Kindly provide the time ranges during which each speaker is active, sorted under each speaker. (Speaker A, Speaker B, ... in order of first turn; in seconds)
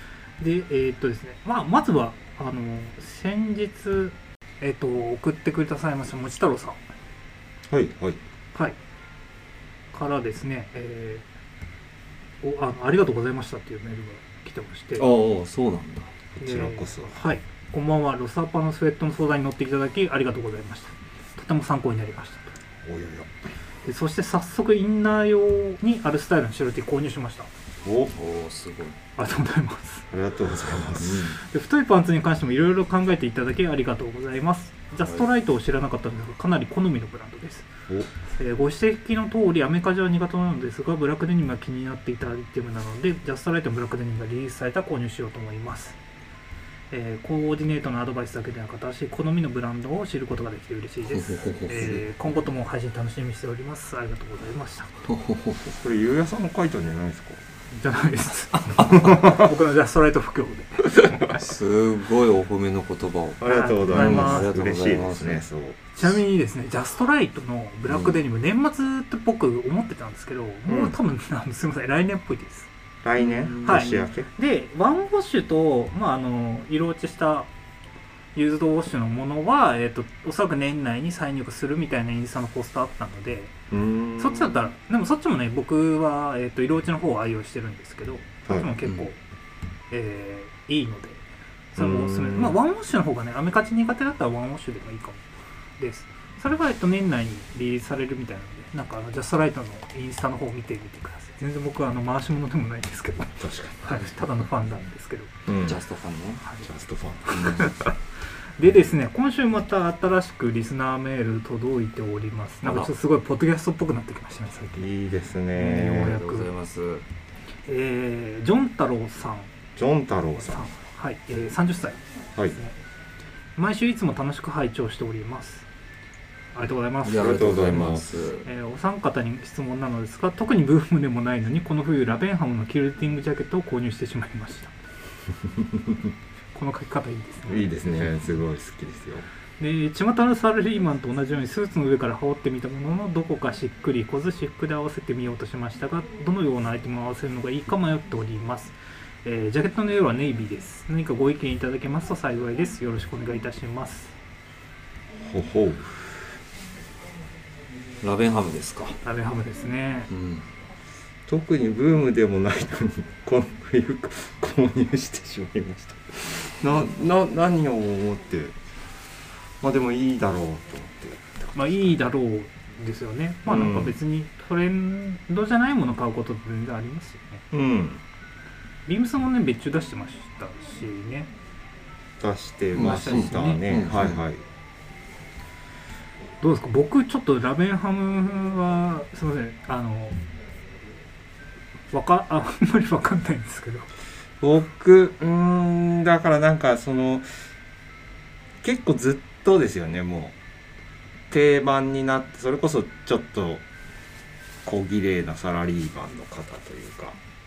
Speaker A: 0.4-6.8, 9.9-11.2, 12.4-15.1, 16.4-22.6, 23.8-27.5, 29.2-30.1, 31.4-37.7, 38.3-46.0, 46.9-55.0, 57.7-60.9, 63.4-64.5, 66.0-72.7, 73.6-77.5, 78.3-83.5, 84.2-89.2, 89.9-91.2, 91.7-95.2, 95.8-105.3, 108.6-114.9, 115.5-116.5, 117.7-119.5, 120.4-122.0, 123.5-125.7, 126.5-127.9, 128.4-134.7, 136.5-137.7, 139.6-154.1, 159.0-160.1, 171.5-177.4, 178.8-181.3, 182.8-183.6, 186.4-190.2, 191.9-193.9
Speaker B: 7.7-8.2, 16.3-17.2, 22.8-23.3, 27.8-28.1, 30.1-31.3, 51.8-52.0, 55.7-57.4, 58.8-59.4, 63.4-66.1, 70.7-71.0, 73.0-74.3, 83.7-84.5, 88.4-88.7, 91.8-92.6, 103.4-104.2, 105.5-105.8, 106.6-107.8, 114.7-116.2, 119.8-120.7, 127.1-128.1, 137.5-139.3, 155.2-156.2, 161.3-168.6, 169.6-172.0, 173.4-174.0, 177.5-178.0, 182.2-184.4, 194.4-197.3, 198.6-200.3, 201.3-203.6, 204.6-207.2
Speaker C: 15.0-16.1, 28.1-28.9, 31.0-31.4, 51.2-51.9, 55.1-55.7, 61.3-65.4, 67.9-68.2, 73.2-74.0, 105.6-106.4, 107.3-107.7, 112.6-112.9, 115.9-117.0, 127.0-128.5, 158.0-159.0, 160.1-160.5, 182.7-184.2